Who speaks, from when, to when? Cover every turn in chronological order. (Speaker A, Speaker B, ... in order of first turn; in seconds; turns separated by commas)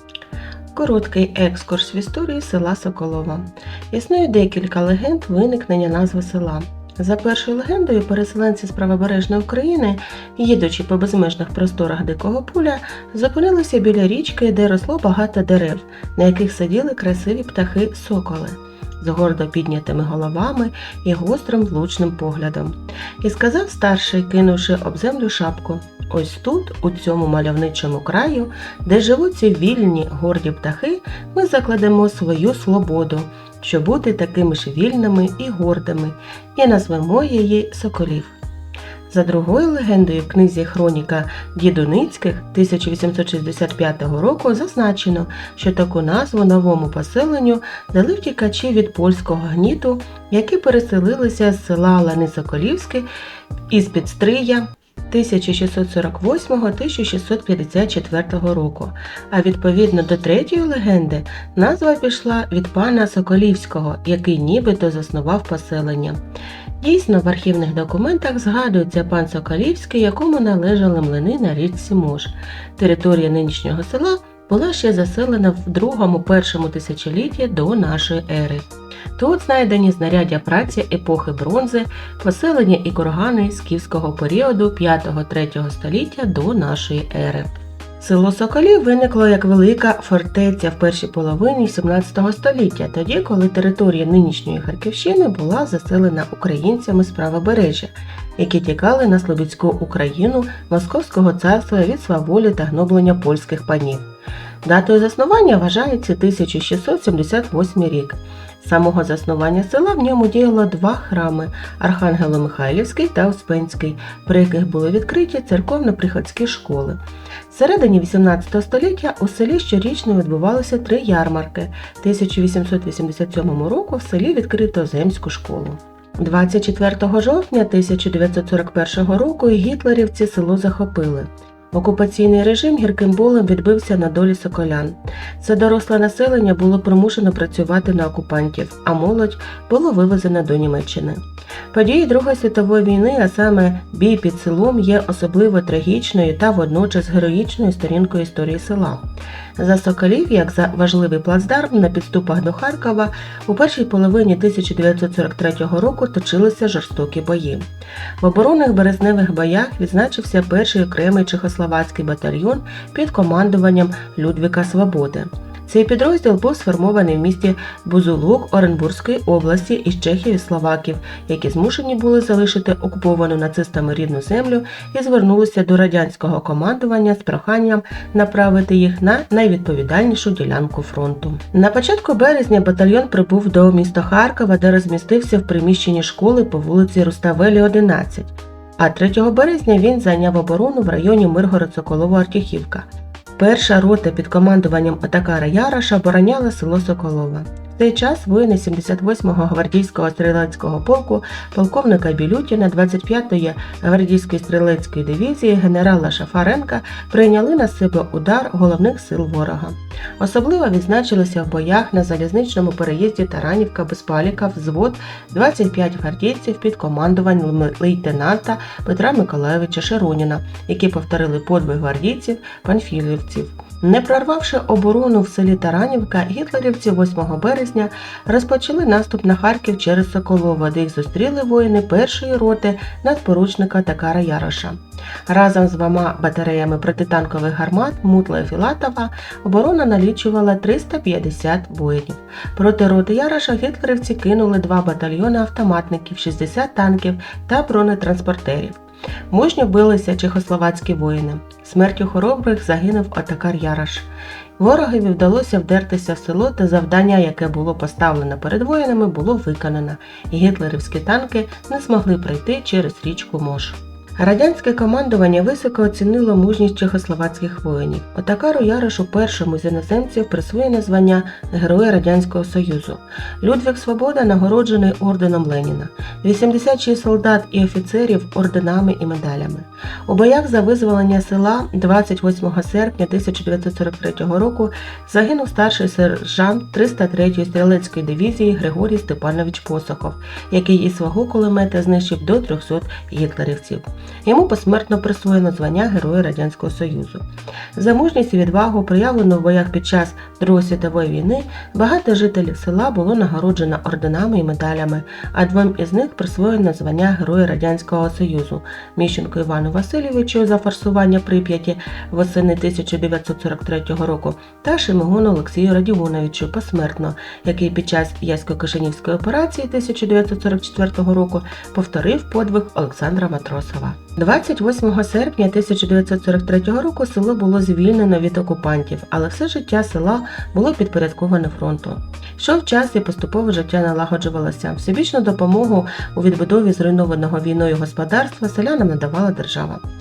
Speaker A: 0.7-38.3, Speaker A: 39.1-53.1, Speaker A: 53.7-66.2, Speaker A: 66.8-78.7, Speaker A: 79.2-104.0, Speaker A: 104.6-117.0, Speaker A: 117.5-141.2, Speaker A: 141.7-149.0, Speaker A: 149.6-157.7, Speaker A: 158.2-192.8, Speaker A: 193.4-234.8, Speaker A: 235.3-248.8, Speaker A: 249.3-254.1, Speaker A: 254.6-297.2, Speaker A: 297.7-339.8